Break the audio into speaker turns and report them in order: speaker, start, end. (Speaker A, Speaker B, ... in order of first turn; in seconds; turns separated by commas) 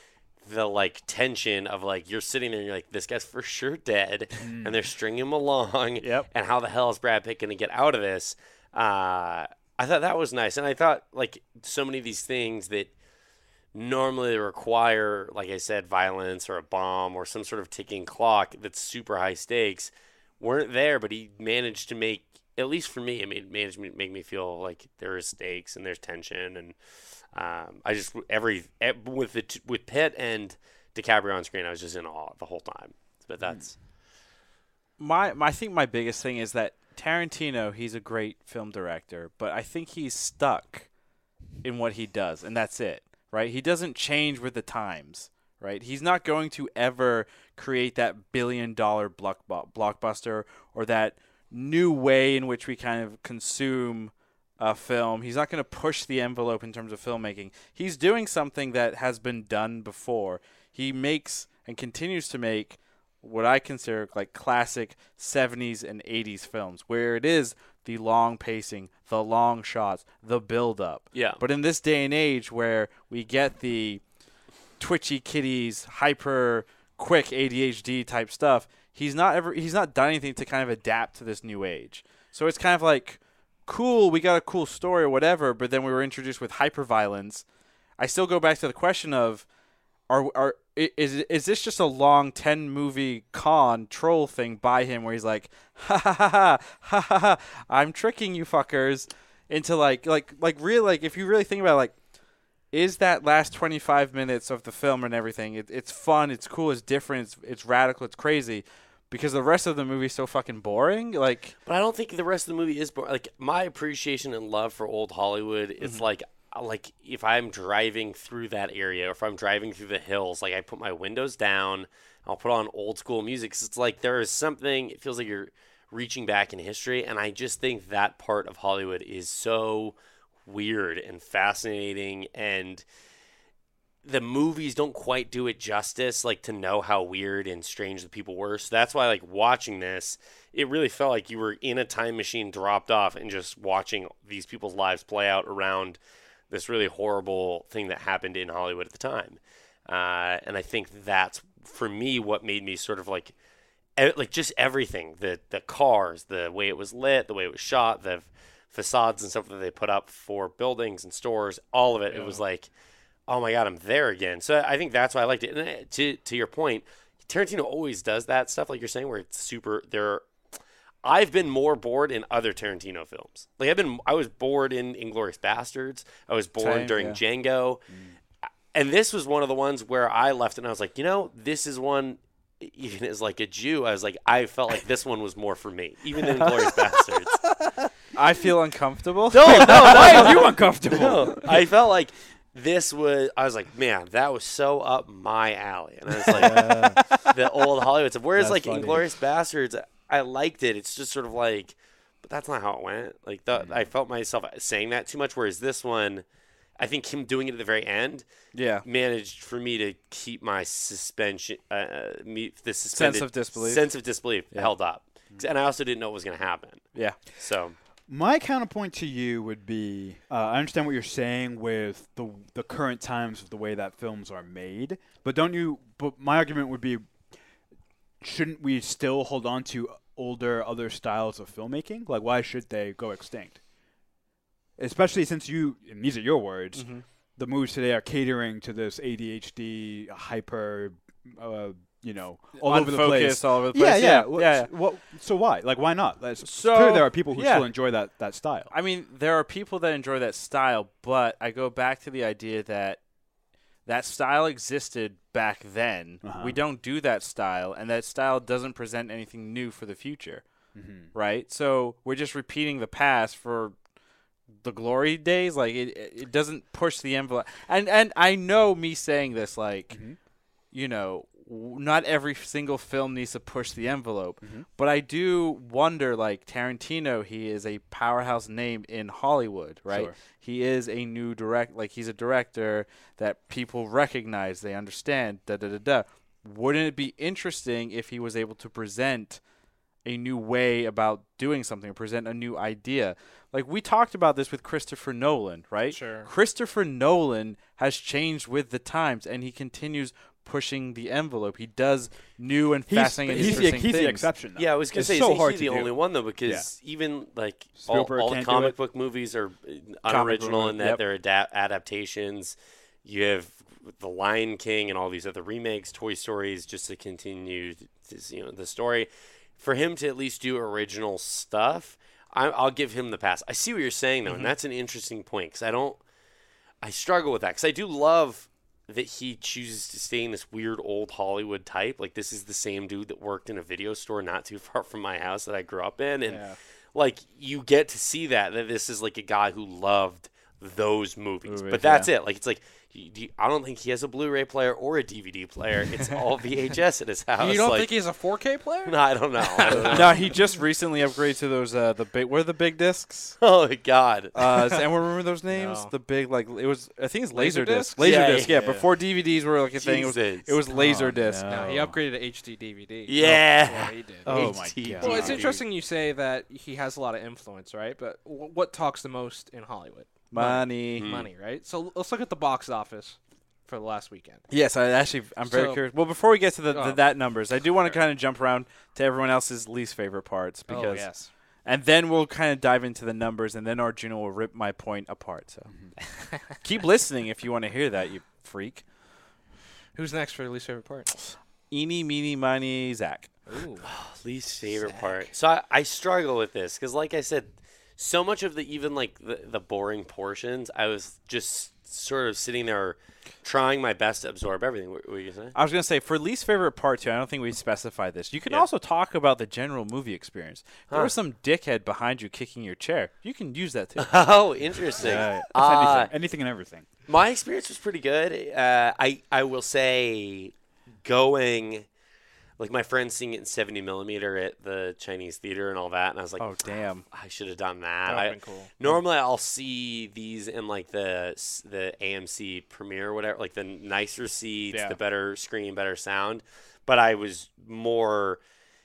Speaker A: 0.4-12.9, Speaker B: 4.4-4.8, Speaker C: 6.0-6.3, Speaker A: 13.7-26.8, Speaker A: 27.3-33.8, Speaker C: 35.0-40.9, Speaker C: 41.6-74.0, Speaker A: 71.1-71.4, Speaker C: 74.8-87.4, Speaker C: 88.0-89.5, Speaker C: 90.1-101.9, Speaker C: 102.7-111.6, Speaker A: 111.7-132.8, Speaker A: 134.0-146.0, Speaker A: 146.5-153.3, Speaker A: 154.0-162.7, Speaker D: 162.1-162.4, Speaker A: 163.3-170.3, Speaker A: 171.0-177.9, Speaker C: 176.6-177.2, Speaker A: 178.7-187.6, Speaker C: 188.1-190.2, Speaker A: 189.3-206.2, Speaker B: 189.4-191.7, Speaker B: 196.3-197.3, Speaker B: 198.4-199.1, Speaker A: 206.8-208.3, Speaker C: 208.5-208.8, Speaker A: 208.8-217.8, Speaker C: 212.9-213.9, Speaker B: 218.1-227.1, Speaker B: 228.2-233.6, Speaker B: 234.8-236.9, Speaker C: 236.8-237.0, Speaker B: 237.4-248.7, Speaker C: 242.6-244.7, Speaker C: 246.4-247.7, Speaker C: 248.7-253.0, Speaker C: 253.9-260.4, Speaker B: 256.2-256.6, Speaker B: 260.8-261.1, Speaker C: 261.1-263.8, Speaker C: 264.6-270.0, Speaker B: 269.9-270.2, Speaker C: 270.7-289.4, Speaker B: 274.4-274.7, Speaker B: 279.9-280.1, Speaker C: 290.1-304.3, Speaker D: 295.9-296.3, Speaker B: 302.9-305.9, Speaker A: 303.4-303.6, Speaker A: 304.6-326.0, Speaker B: 306.4-306.7, Speaker B: 307.8-308.8, Speaker C: 310.1-311.0, Speaker D: 324.2-324.5, Speaker A: 326.8-348.0, Speaker D: 336.2-336.6, Speaker C: 341.4-342.1, Speaker D: 347.4-350.3, Speaker A: 348.9-350.3, Speaker C: 349.8-353.4, Speaker A: 353.4-354.3, Speaker C: 354.4-361.5, Speaker D: 355.5-355.9, Speaker D: 357.3-358.4, Speaker A: 358.0-358.7, Speaker B: 358.4-358.9, Speaker A: 359.8-360.6, Speaker B: 360.7-362.0, Speaker D: 361.5-374.4, Speaker A: 363.1-365.6, Speaker B: 364.2-365.5, Speaker C: 370.3-371.1, Speaker A: 371.0-371.3, Speaker C: 374.5-381.1, Speaker D: 375.5-375.8, Speaker D: 376.7-377.0, Speaker D: 380.7-381.3, Speaker C: 381.7-385.7, Speaker C: 386.6-388.8, Speaker D: 389.9-391.1, Speaker C: 391.7-393.3, Speaker D: 393.5-393.9, Speaker A: 393.9-405.6, Speaker D: 394.7-395.3, Speaker C: 405.6-414.1, Speaker A: 414.0-416.1, Speaker B: 415.0-416.9, Speaker A: 417.1-421.9, Speaker A: 422.6-426.5, Speaker C: 426.4-427.1, Speaker A: 427.1-438.4, Speaker D: 428.1-428.7, Speaker D: 434.7-435.0